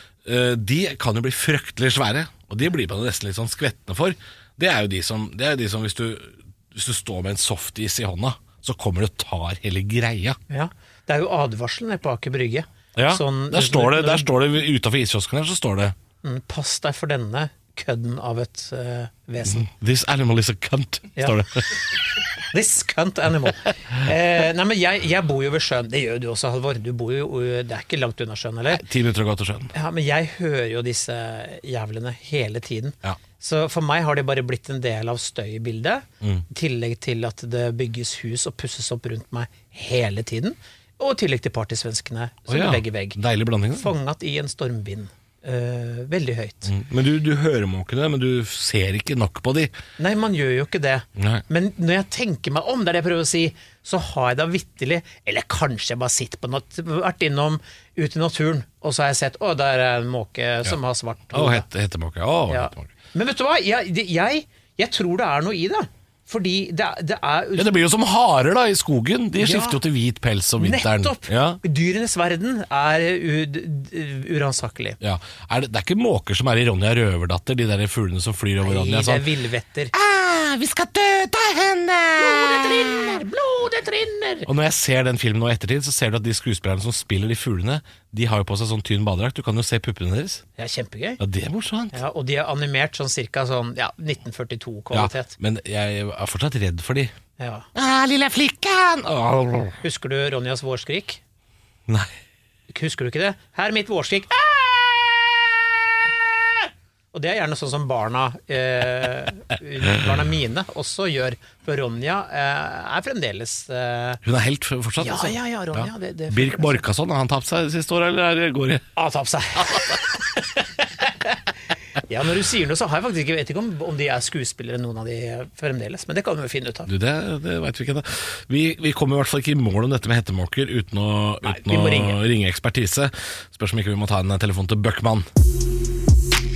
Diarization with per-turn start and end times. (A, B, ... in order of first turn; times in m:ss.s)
0:00.2-0:10.4 A
0:10.5-0:14.4 B
0:13.0-0:16.0 A
0:16.2-0:19.7 B
0:19.4-0:21.7 A
0:21.2-0:28.8 B
0:28.7-0:29.7 A
0:29.7-0:43.2 B
0:42.5-0:43.9 A
0:43.7-0:46.7 B
0:46.6-0:49.7 A
0:50.0-1:01.7 B
0:51.2-0:51.4 A
1:01.3-1:02.9 A
1:02.5-1:07.9 B
1:07.6-1:11.6 A
1:09.4-1:09.8 B
1:10.6-1:15.0 B
1:15.0-1:19.3 A
1:18.6-1:19.9 B
1:19.9-1:23.2 A
1:22.2-1:24.5 B
1:24.4-1:30.4 A
1:30.6-1:31.2 B
1:31.2-1:32.0 A
1:31.9-1:35.3 B
1:34.9-1:37.1 A
1:37.4-1:37.7 B
1:37.8-1:39.8 A
1:39.8-1:41.2 B
1:42.7-1:44.7 B
1:47.1-1:54.2 B
1:54.2-1:58.9 A
1:55.0-1:56.9 B
1:59.0-2:06.9 B
2:06.9-2:15.2 A
2:11.4-2:12.2 B